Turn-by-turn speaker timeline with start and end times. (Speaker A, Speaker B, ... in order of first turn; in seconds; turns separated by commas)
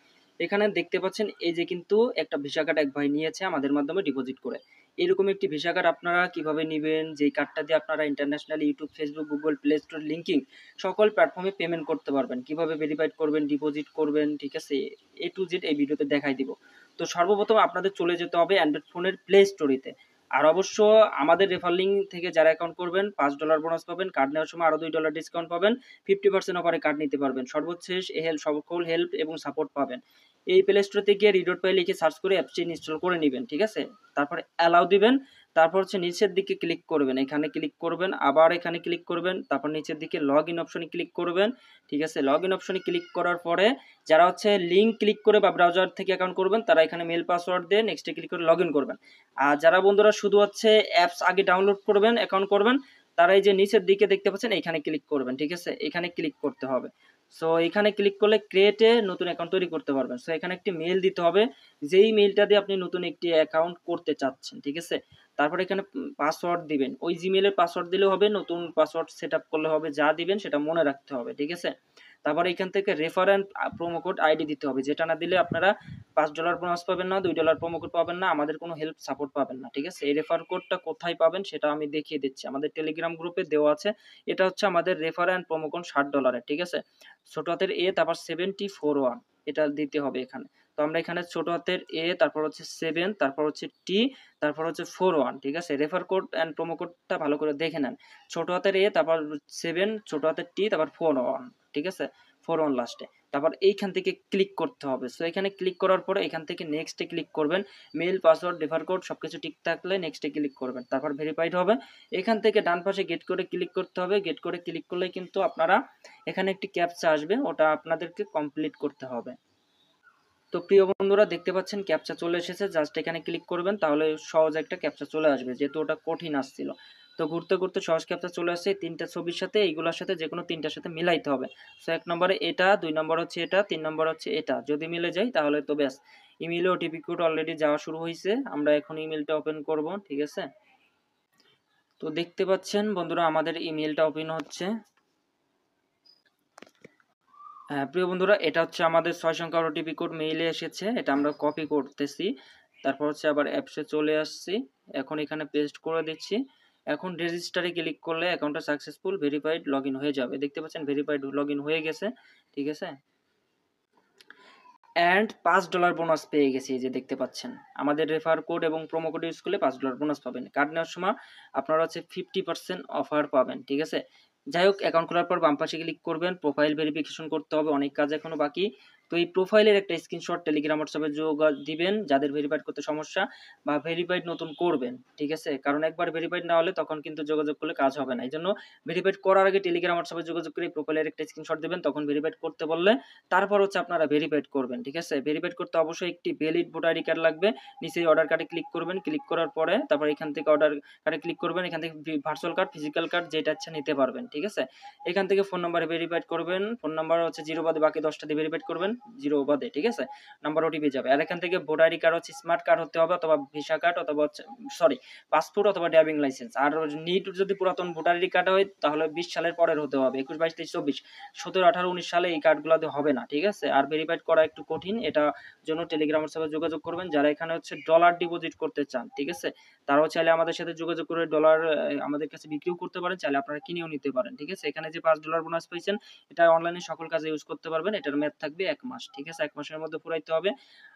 Speaker A: 0.4-30.0, Speaker A: 30.5-71.7, Speaker A: 72.2-115.8, Speaker A: 116.3-119.3, Speaker A: 120.5-140.5, Speaker A: 142.0-144.7, Speaker A: 147.8-152.3, Speaker A: 152.8-156.4, Speaker A: 156.9-162.9, Speaker A: 165.0-174.0, Speaker A: 174.5-240.5